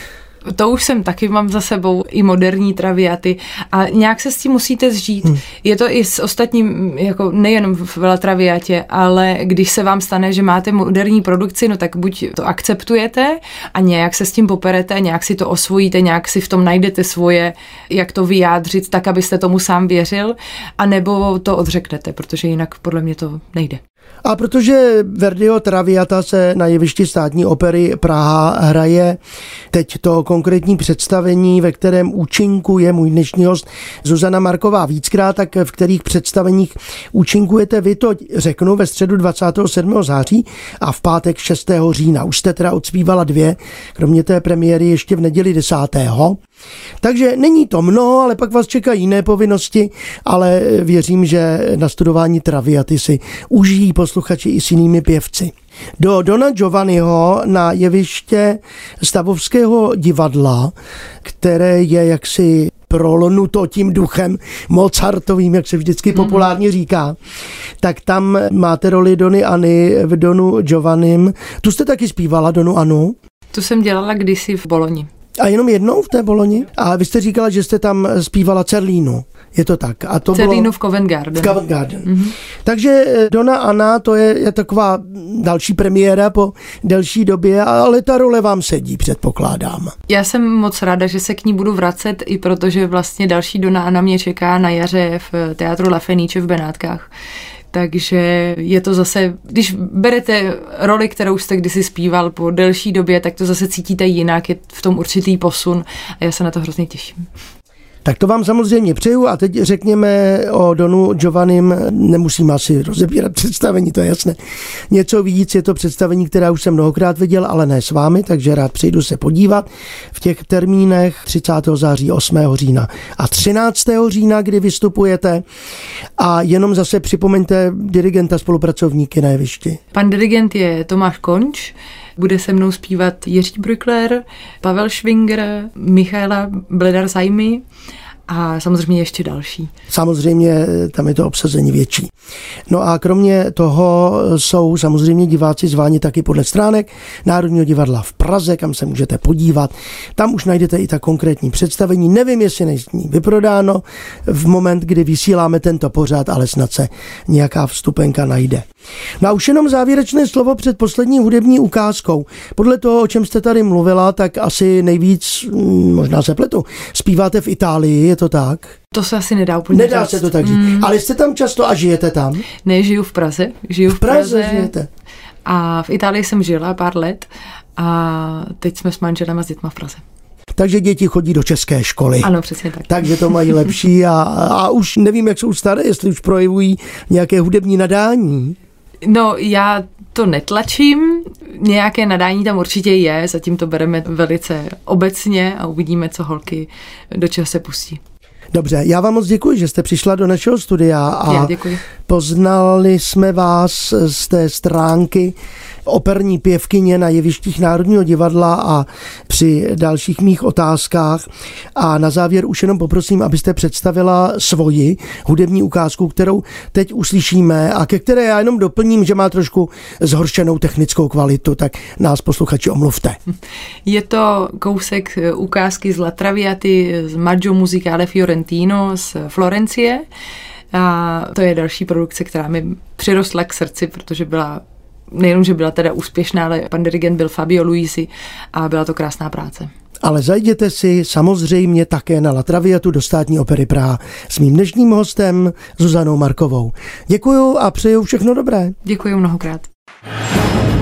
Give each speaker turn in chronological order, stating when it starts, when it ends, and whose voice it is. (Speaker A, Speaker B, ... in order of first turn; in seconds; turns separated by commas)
Speaker A: 0.4-23.8, Speaker B: 24.2-29.2, Speaker B: 29.7-46.4, Speaker B: 47.0-67.2, Speaker B: 67.8-73.2, Speaker A: 73.5-75.1, Speaker B: 75.4-80.7, Speaker A: 80.3-82.3, Speaker B: 81.4-82.1, Speaker B: 82.6-89.9, Speaker A: 90.1-97.1, Speaker A: 97.7-107.2, Speaker B: 108.0-114.4, Speaker B: 114.9-125.4, Speaker B: 126.2-129.8, Speaker A: 129.9-137.6, Speaker A: 138.3-139.7, Speaker B: 139.9-142.1, Speaker B: 142.7-158.7, Speaker B: 159.2-168.7, Speaker A: 168.9-170.9, Speaker B: 169.7-172.4, Speaker A: 172.6-174.7, Speaker B: 173.9-174.9, Speaker A: 175.4-180.0, Speaker B: 180.5-182.3, Speaker A: 182.2-183.6, Speaker B: 182.8-188.6, Speaker A: 189.0-198.0, Speaker B: 198.5-223.2, Speaker A: 201.3-201.8, Speaker A: 223.8-230.0, Speaker A: 230.7-239.7, Speaker B: 240.0-248.8, Speaker A: 248.8-249.7